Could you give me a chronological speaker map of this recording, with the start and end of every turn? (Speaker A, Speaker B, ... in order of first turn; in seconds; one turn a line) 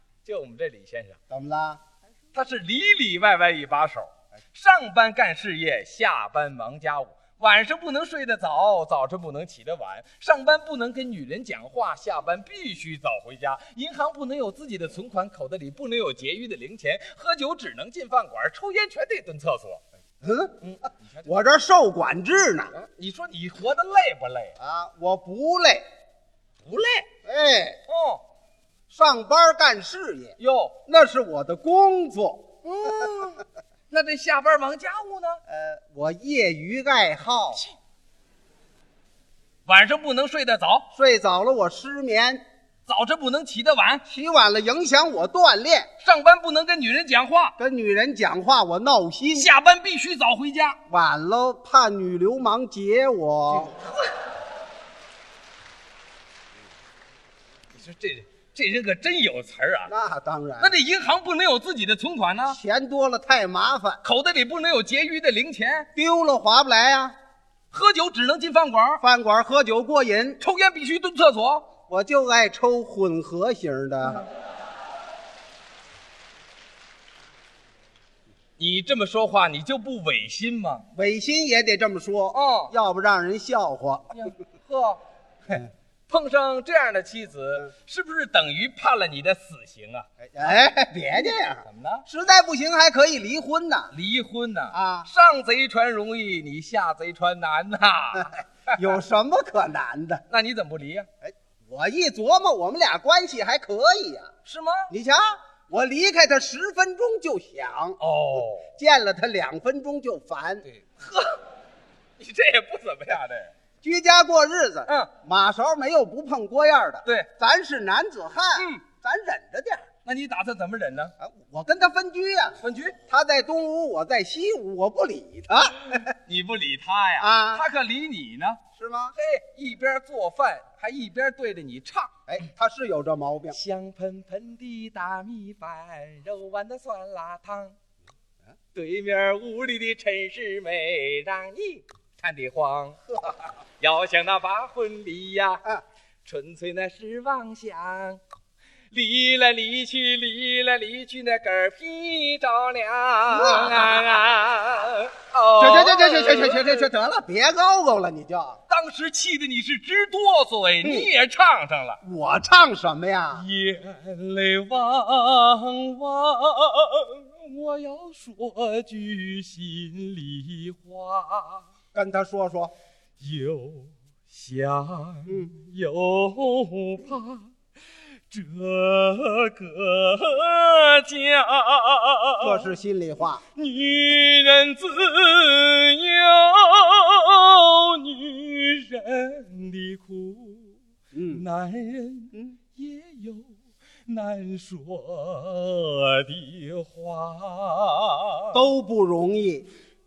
Speaker A: 0.2-1.2
Speaker B: 1.3-1.8
Speaker A: 2.3-19.8
Speaker B: 20.2-20.6
Speaker A: 20.6-21.3
Speaker B: 21.2-22.7
Speaker A: 22.7-24.6
Speaker B: 24.6-25.8
Speaker A: 26.6-27.1
Speaker B: 27.2-27.8
Speaker A: 27.9-28.2
Speaker B: 28.9-30.3
Speaker A: 30.4-30.8
Speaker B: 30.9-32.5
Speaker A: 32.6-35.4
Speaker B: 35.5-37.6
Speaker A: 39.6-40.9
Speaker B: 40.9-42.4
Speaker A: 42.9-44.0
Speaker B: 44.0-45.9
Speaker A: 46.0-47.5
Speaker B: 47.6-49.5
Speaker A: 49.3-50.8
Speaker B: 50.9-53.7
Speaker A: 53.5-54.0
Speaker A: 57.7-59.9
Speaker B: 59.9-60.8
Speaker A: 60.6-62.6
Speaker B: 62.5-64.0
Speaker A: 64.0-65.9
Speaker B: 65.9-67.1
Speaker A: 67.7-69.0
Speaker B: 69.0-70.4
Speaker A: 70.4-71.7
Speaker B: 71.9-74.2
Speaker A: 78.6-80.8
Speaker B: 80.9-84.1
Speaker A: 82.3-82.7
Speaker A: 84.1-90.1
Speaker B: 90.2-93.9
Speaker A: 91.7-92.0
Speaker A: 93.9-98.8
Speaker B: 94.7-95.1
Speaker B: 98.7-100.2
Speaker A: 100.3-101.1
Speaker B: 101.2-104.3
Speaker A: 104.4-104.9
Speaker B: 104.9-108.0
Speaker A: 108.0-108.7
Speaker B: 108.7-110.6
Speaker A: 110.6-111.4
Speaker A: 112.2-113.5
Speaker B: 113.8-119.9
Speaker A: 118.6-118.8
Speaker A: 120.0-121.1
Speaker B: 121.2-126.1
Speaker A: 122.6-123.0
Speaker A: 126.0-128.6
Speaker B: 127.2-127.7
Speaker B: 128.8-129.1
Speaker A: 129.1-132.1
Speaker B: 132.3-133.6
Speaker A: 133.5-137.8
Speaker A: 138.7-143.0
Speaker A: 143.8-145.6
Speaker A: 146.2-148.2
Speaker A: 148.9-156.9
Speaker B: 153.3-154.2
Speaker B: 155.6-158.6
Speaker A: 158.7-162.0
Speaker B: 160.8-161.1
Speaker B: 162.0-163.4
Speaker A: 163.3-171.7
Speaker B: 171.9-172.7
Speaker A: 173.2-177.5
Speaker A: 178.3-182.7
Speaker B: 182.4-183.4
Speaker A: 183.5-190.8
Speaker B: 191.1-191.4
Speaker A: 191.3-198.6
Speaker B: 198.5-199.7